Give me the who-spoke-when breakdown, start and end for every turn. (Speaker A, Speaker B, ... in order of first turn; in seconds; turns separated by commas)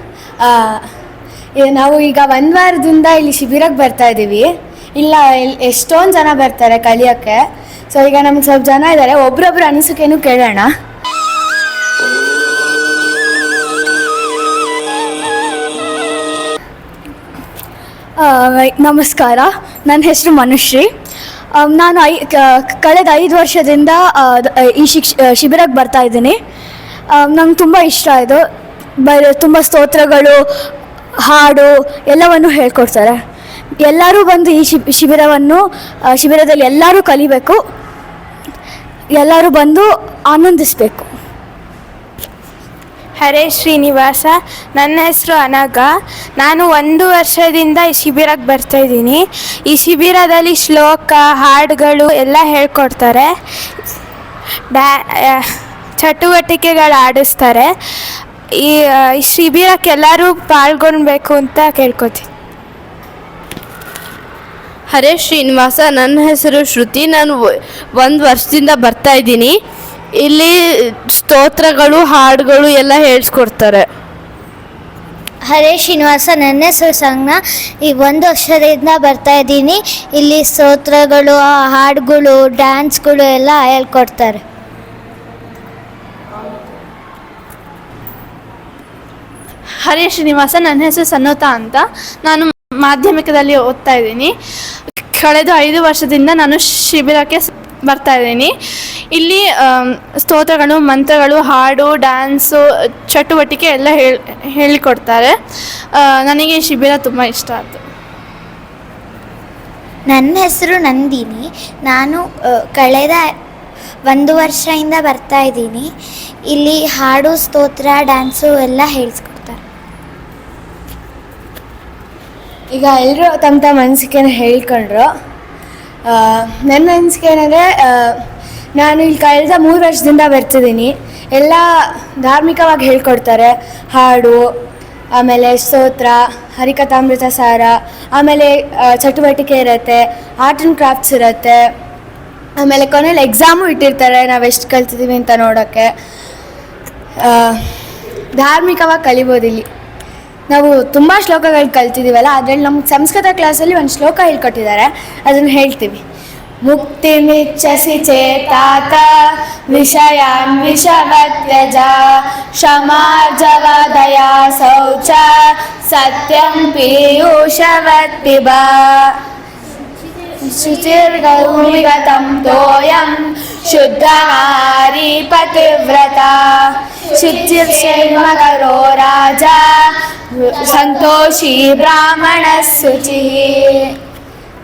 Speaker A: 0.4-0.8, Speaker A: 1.6-7.4, Speaker A: 7.9-10.7, Speaker B: 18.2-20.9, Speaker B: 21.6-26.4, Speaker B: 27.1-28.4, Speaker B: 29.0-30.5, Speaker B: 31.2-33.2, Speaker B: 33.8-37.6, Speaker B: 39.1-41.1, Speaker C: 43.2-53.3, Speaker C: 54.7-55.4, Speaker C: 56.0-57.7, Speaker C: 58.6-62.3, Speaker D: 64.9-67.4, Speaker D: 68.0-69.5, Speaker D: 70.2-70.5, Speaker D: 71.2-73.8, Speaker E: 75.5-84.4, Speaker F: 89.8-94.3, Speaker F: 95.1-98.5, Speaker F: 99.1-105.3, Speaker F: 106.0-107.8, Speaker E: 110.1-113.3, Speaker E: 114.1-115.9, Speaker E: 116.5-119.6, Speaker A: 122.7-125.1, Speaker A: 126.1-128.2, Speaker A: 128.8-131.6, Speaker A: 132.2-134.5, Speaker A: 135.1-141.6, Speaker A: 142.6-145.9, Speaker A: 147.2-147.6, Speaker A: 148.4-149.7, Speaker A: 150.5-156.0, Speaker A: 156.6-159.1, Speaker A: 159.7-169.1, Speaker A: 170.4-179.8, Speaker A: 180.3-183.9